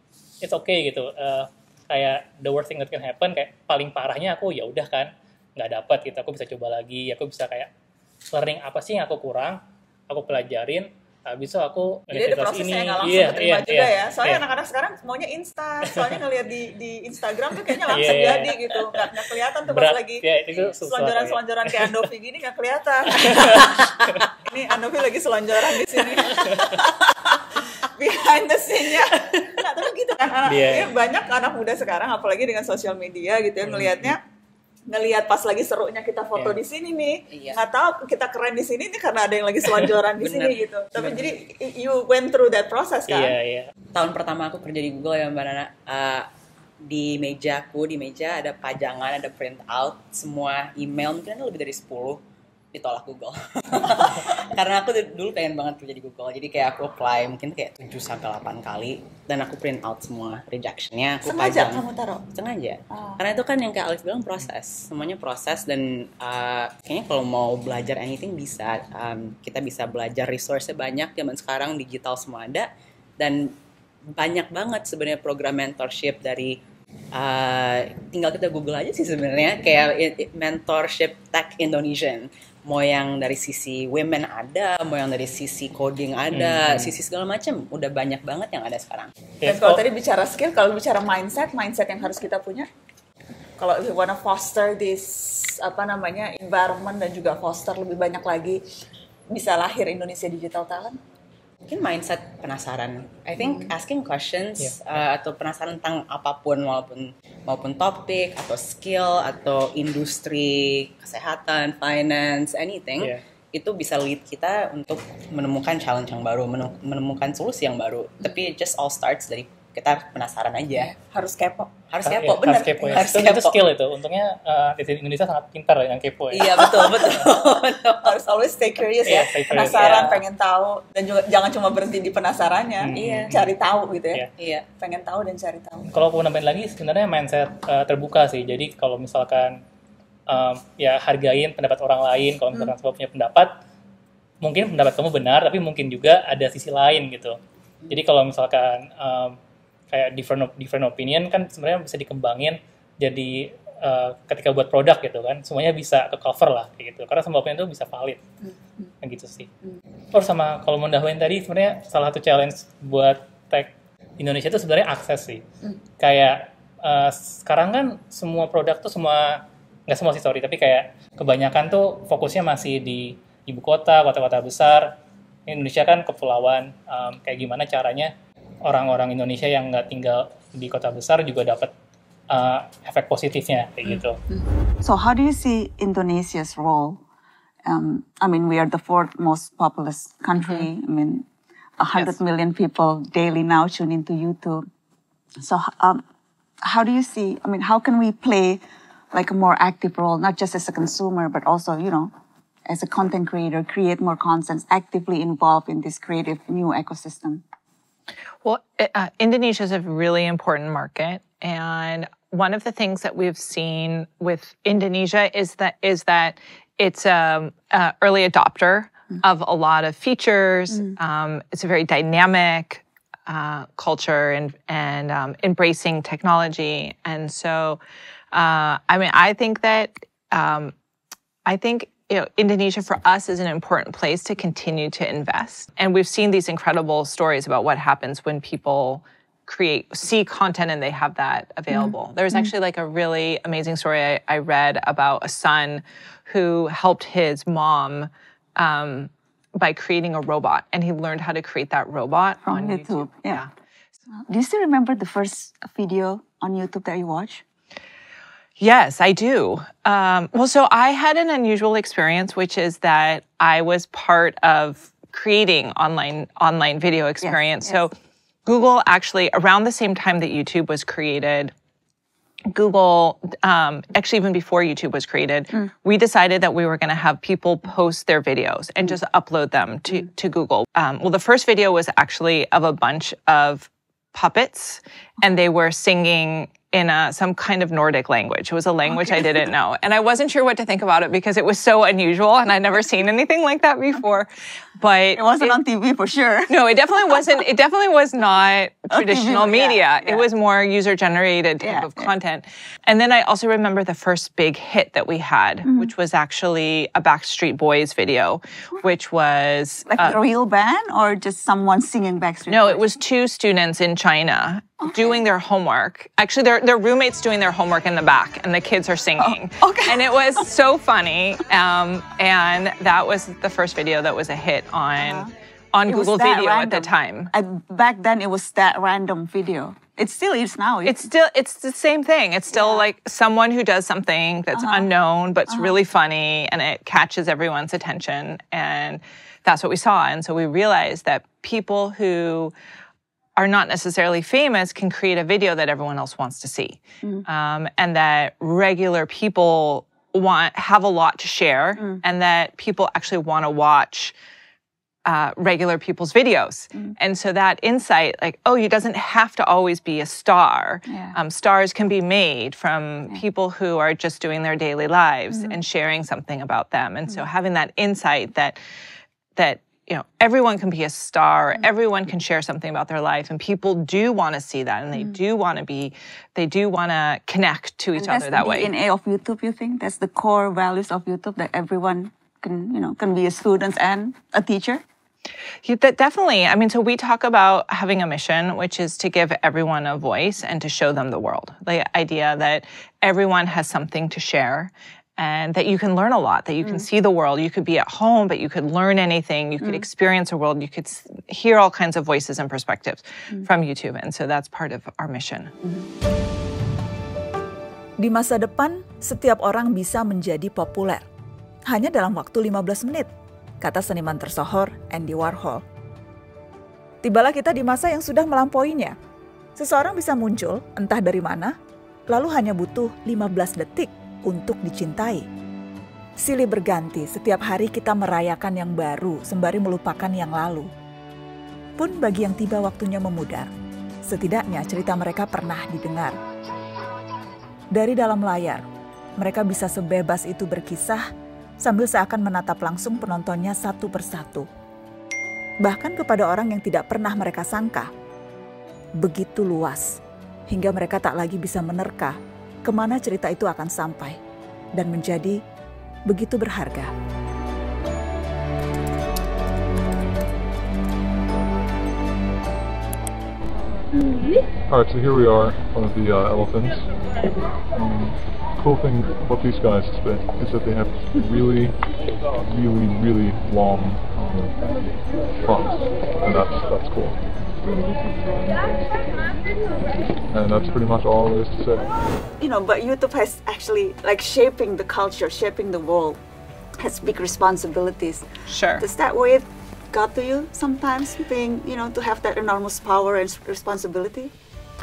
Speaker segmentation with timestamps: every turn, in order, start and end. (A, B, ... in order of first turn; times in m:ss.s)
0:00.4-0:07.7 A
0:08.3-0:14.4 A
0:12.1-0:34.2 B
0:15.9-0:16.2 A
0:17.7-0:19.1 A
0:19.7-0:22.1 A
0:23.1-0:24.2 A
0:26.1-0:26.8 A
0:30.4-0:30.9 A
0:33.7-0:34.2 A
0:34.9-0:43.4 B
0:36.3-0:36.6 A
0:37.3-0:37.6 C
0:40.2-0:41.3 C
0:43.1-0:43.7 A
0:43.9-0:46.3 C
0:46.8-0:52.2 C
0:52.7-1:13.5 C
1:01.2-1:02.2 B
1:02.9-1:03.2 B
1:14.1-1:16.6 C
1:17.1-1:29.1 C
1:26.3-1:26.9 A
1:29.4-1:29.8 A
1:29.4-1:32.7 B
1:33.6-1:38.6 B
1:39.3-1:41.0 B
1:41.7-2:00.9 C
1:43.4-1:43.7 B
2:00.8-2:01.7 B
2:01.9-2:03.6 C
2:02.1-2:06.7 A
2:02.3-2:03.2 B
2:06.3-2:08.2 C
2:06.6-2:14.3 B
2:09.0-2:10.0 A
2:09.5-2:10.2 C
2:12.8-2:13.6 A
2:13.0-2:13.3 C
2:14.4-2:14.6 C
2:14.8-2:15.9 B
2:15.9-2:19.6 A
2:20.3-2:23.5 A
2:24.4-2:29.4 A
2:29.9-2:38.2 A
2:39.0-2:39.5 A
2:40.1-2:45.4 A
2:46.0-2:54.9 A
2:55.5-2:58.1 A
2:58.6-3:01.7 A
3:02.3-3:04.2 A
3:04.8-3:07.0 D
3:07.6-3:11.2 D
3:10.4-3:10.7 E
3:11.8-3:14.6 D
3:15.4-3:16.0 D
3:16.6-3:18.6 D
3:19.1-3:22.1 D
3:22.7-3:27.4 D
3:28.4-3:47.8 E
3:48.3-3:50.7 E
3:51.4-4:13.5 E
4:12.4-4:13.4 D
4:14.3-4:17.4 D
4:18.6-4:27.9 E
4:27.2-4:27.8 D
4:28.4-4:31.5 E
4:32.5-4:55.6 E
4:48.9-4:49.5 D
4:55.1-4:57.4 D
4:56.5-5:10.2 E
4:58.9-5:00.2 D
5:01.6-5:02.1 D
5:05.6-5:05.9 D
5:09.9-5:13.0 D
5:12.5-5:27.3 E
5:19.2-5:20.4 D
5:25.0-5:25.3 D
5:25.8-5:31.1 D
5:30.8-5:42.5 E
5:32.5-5:32.9 D
5:34.5-5:34.9 D
5:35.5-5:35.7 D
5:43.4-5:54.1 E
5:55.0-6:08.6 E
6:00.9-6:01.1 D
6:09.4-6:18.7 E
6:17.9-6:24.8 D
6:25.6-6:45.5 E
6:45.6-6:45.9 D
6:48.0-6:51.0 F
6:51.7-6:53.1 F
6:53.6-6:55.6 F
6:57.0-6:58.9 F
6:59.6-7:01.5 F
7:02.1-7:05.2 F
7:06.2-7:10.7 F
7:11.8-7:13.5 F
7:14.0-7:16.2 F
7:17.7-7:18.6 F
7:19.2-7:21.1 F
7:21.6-7:24.5 F
7:25.6-7:27.9 F
7:29.0-7:34.2 F
7:34.8-7:35.4 F
7:36.1-7:36.9 F
7:44.7-7:46.9 G
7:47.7-7:51.8 G
7:52.4-7:54.7 G
7:55.4-7:57.2 G
8:00.3-8:01.9 G
8:02.4-8:06.2 D
8:06.8-8:08.2 D
8:08.5-8:08.8 E
8:08.8-8:14.3 D